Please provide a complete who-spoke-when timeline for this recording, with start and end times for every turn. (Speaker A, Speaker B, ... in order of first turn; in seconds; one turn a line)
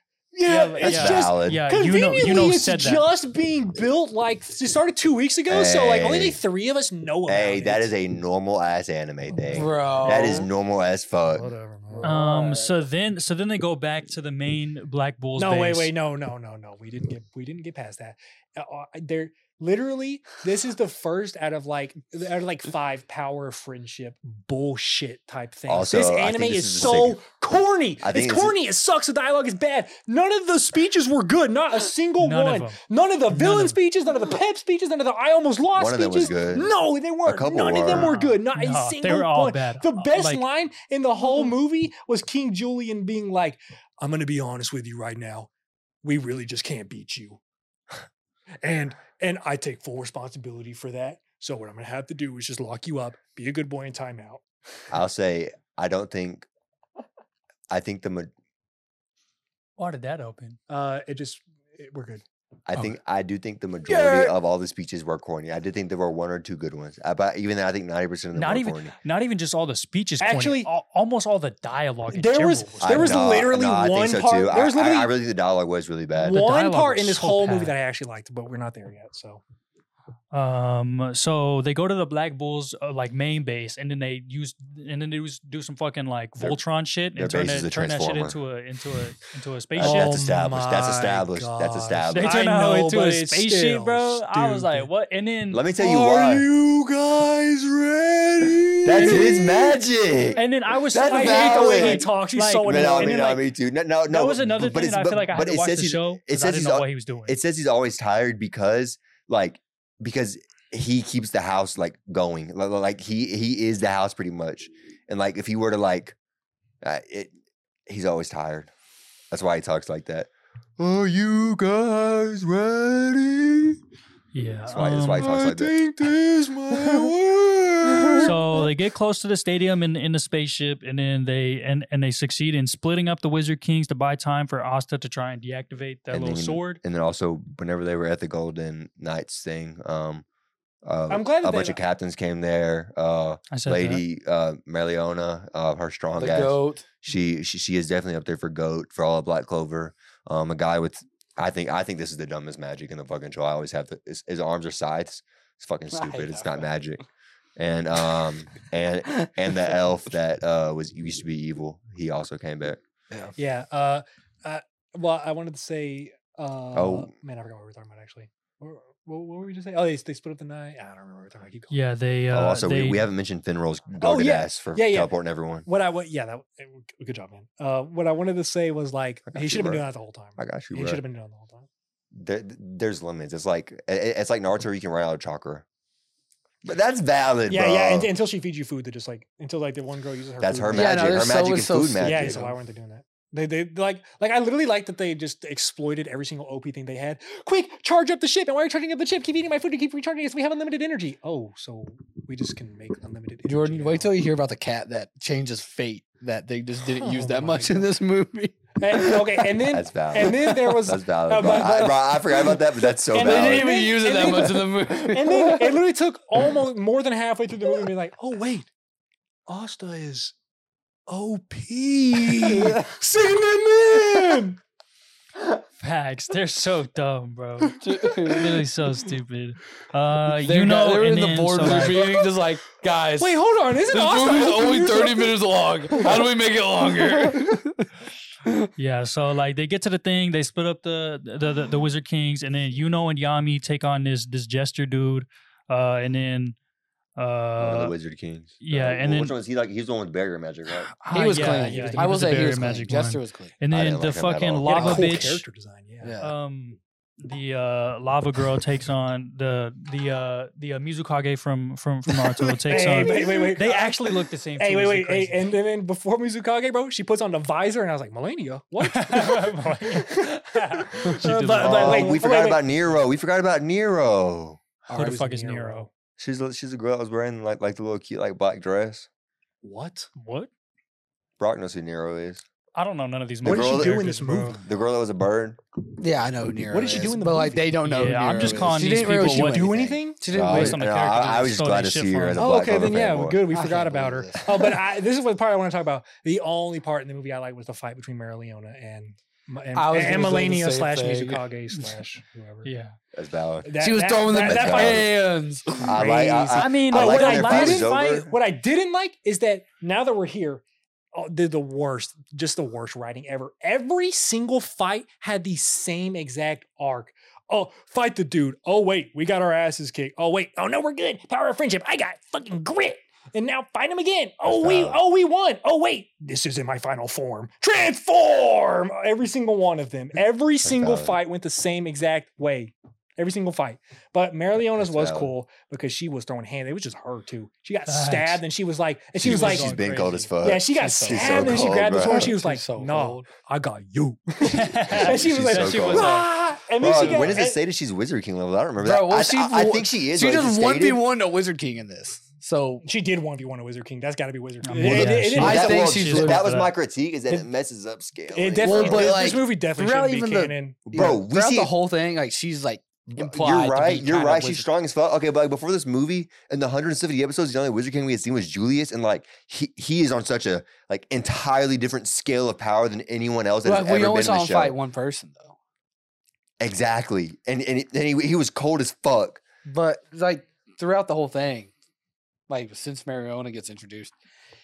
Speaker A: 0.3-7.9
Speaker B: 0.5-3.0
Speaker C: 0.8-1.6
Speaker C: 5.5-6.4
Speaker C: 7.3-11.5
Speaker D: 9.5-10.5
Speaker A: 11.3-12.2
Speaker D: 12.0-12.7
Speaker B: 12.0-15.9
Speaker A: 15.4-45.5
Speaker C: 25.7-27.2
Speaker C: 28.0-28.6
Speaker B: 32.2-33.8
Speaker C: 35.8-36.7
Speaker C: 37.2-38.1
Speaker B: 37.9-40.4
Speaker A: 46.0-47.4
Speaker A: 48.6-54.4
Speaker C: 54.9-56.5
Speaker C: 57.7-58.3
Speaker B: 59.8-60.6
Speaker A: 60.7-62.2
Speaker C: 62.7-68.9
Speaker A: 63.9-64.3
Speaker B: 68.3-73.2
Speaker A: 70.2-70.7
Speaker A: 72.1-75.1
Speaker C: 72.8-76.4
Speaker A: 76.2-79.4
Speaker B: 76.3-77.7
Speaker B: 80.3-90.3
Speaker C: 87.2-88.4
Speaker C: 89.8-92.4
Speaker A: 89.8-94.9
Speaker B: 92.1-95.7
Speaker C: 95.5-96.5
Speaker A: 95.8-99.8
Speaker C: 98.8-100.4
Speaker B: 99.0-99.3
Speaker B: 100.4-103.3
Speaker C: 100.9-102.1
Speaker A: 100.9-103.4
Speaker C: 102.7-116.2
Speaker B: 104.1-107.4
Speaker C: 116.8-117.3
Speaker C: 117.9-118.7
Speaker C: 119.3-123.8
Speaker B: 124.3-125.4
Speaker C: 124.7-125.8
Speaker A: 125.2-128.4
Speaker C: 126.7-127.1
Speaker C: 127.9-128.3
Speaker B: 128.2-136.8
Speaker C: 136.1-140.2
Speaker C: 140.8-157.0
Speaker A: 141.1-141.8
Speaker B: 143.5-144.0
Speaker D: 146.2-146.9
Speaker D: 155.9-156.7
Speaker C: 157.6-162.8
Speaker A: 163.4-171.8
Speaker C: 166.8-167.1
Speaker B: 171.7-173.1
Speaker C: 172.3-175.7
Speaker A: 174.0-175.1
Speaker A: 175.7-181.7
Speaker C: 179.3-179.8
Speaker C: 180.4-181.0
Speaker C: 182.1-185.7
Speaker C: 186.6-188.1
Speaker A: 187.5-191.3
Speaker C: 190.4-192.5
Speaker D: 190.7-192.5
Speaker A: 192.0-204.1
Speaker D: 203.4-209.5
Speaker A: 206.9-207.9
Speaker A: 208.8-212.6
Speaker C: 209.7-213.7
Speaker D: 210.2-210.9
Speaker D: 213.1-215.8
Speaker A: 213.1-218.7
Speaker A: 219.5-220.3
Speaker A: 221.1-224.6
Speaker B: 225.8-232.2
Speaker D: 227.8-228.6
Speaker D: 230.4-237.9
Speaker A: 231.6-232.2
Speaker A: 233.2-235.4
Speaker B: 238.8-246.6
Speaker B: 247.2-247.9
Speaker C: 247.6-250.9
Speaker B: 248.6-249.3
Speaker B: 251.0-255.4
Speaker D: 251.1-253.5
Speaker A: 251.2-252.6
Speaker C: 253.7-254.9
Speaker A: 254.7-256.1
Speaker D: 254.8-255.2
Speaker D: 256.0-256.3
Speaker B: 256.2-265.5
Speaker A: 262.6-272.6
Speaker B: 268.8-272.2
Speaker D: 271.1-271.8
Speaker C: 271.6-274.6
Speaker A: 274.9-275.9
Speaker B: 274.9-275.9
Speaker C: 276.2-279.1
Speaker A: 279.6-280.1
Speaker B: 280.2-280.5
Speaker C: 281.4-282.4
Speaker B: 282.8-284.6
Speaker A: 283.4-284.6
Speaker C: 283.4-285.6
Speaker D: 286.0-290.8
Speaker A: 286.7-290.2
Speaker B: 287.9-289.8
Speaker B: 290.3-292.5
Speaker C: 290.3-293.4
Speaker A: 292.4-302.7
Speaker D: 293.5-294.7
Speaker D: 299.7-302.0
Speaker B: 302.6-303.0
Speaker C: 303.1-303.7
Speaker A: 303.6-305.1
Speaker D: 303.8-306.0
Speaker C: 304.3-305.1
Speaker C: 305.8-308.3
Speaker A: 305.9-347.6
Speaker B: 306.6-308.2
Speaker C: 324.5-325.0
Speaker C: 330.6-331.2
Speaker C: 334.8-335.3
Speaker B: 337.9-338.4
Speaker C: 339.2-342.3
Speaker B: 339.3-340.3
Speaker D: 340.8-343.3
Speaker B: 344.4-346.3
Speaker C: 344.9-346.2
Speaker C: 346.8-351.0
Speaker D: 348.8-352.9
Speaker A: 352.8-355.8
Speaker B: 354.6-356.7
Speaker D: 354.8-356.6
Speaker C: 355.4-359.3
Speaker A: 358.3-361.2
Speaker D: 358.6-364.7
Speaker C: 360.9-361.7
Speaker C: 363.1-374.8
Speaker D: 373.6-375.6
Speaker C: 376.6-379.4
Speaker D: 379.7-381.7
Speaker D: 382.5-384.1